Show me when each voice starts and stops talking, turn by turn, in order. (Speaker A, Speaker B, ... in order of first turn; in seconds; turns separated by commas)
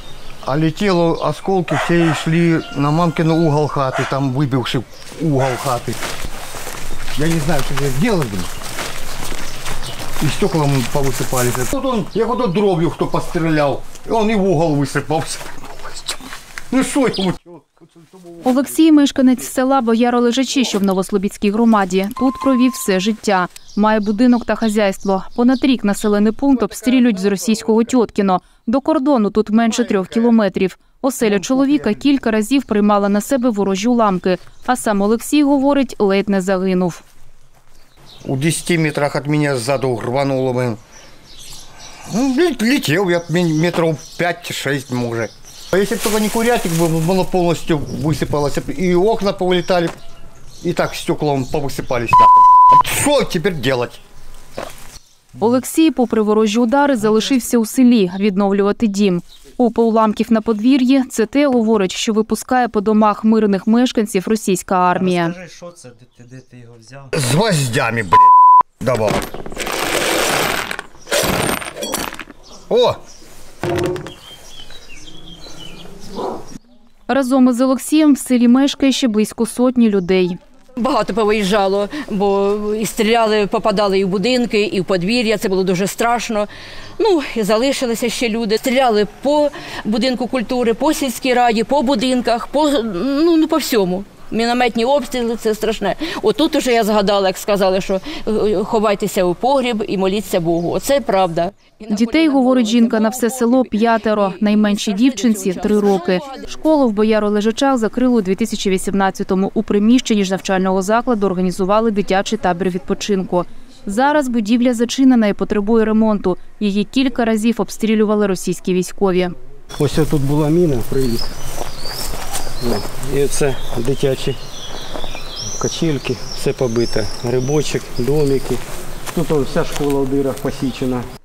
Speaker A: 0.4-6.0, Speaker A: 7.1-8.5, Speaker A: 10.2-17.8, Speaker B: 18.4-37.0, Speaker A: 38.2-40.8, Speaker A: 42.1-50.0, Speaker A: 50.6-54.0, Speaker B: 55.4-65.3, Speaker C: 65.1-67.1, Speaker A: 67.1-69.3, Speaker A: 72.7-73.0, Speaker B: 77.1-80.4, Speaker D: 80.8-86.5, Speaker D: 87.0-106.4, Speaker B: 101.9-119.3, Speaker E: 119.8-121.2, Speaker E: 122.6-124.4, Speaker E: 125.6-128.6, Speaker E: 129.1-131.0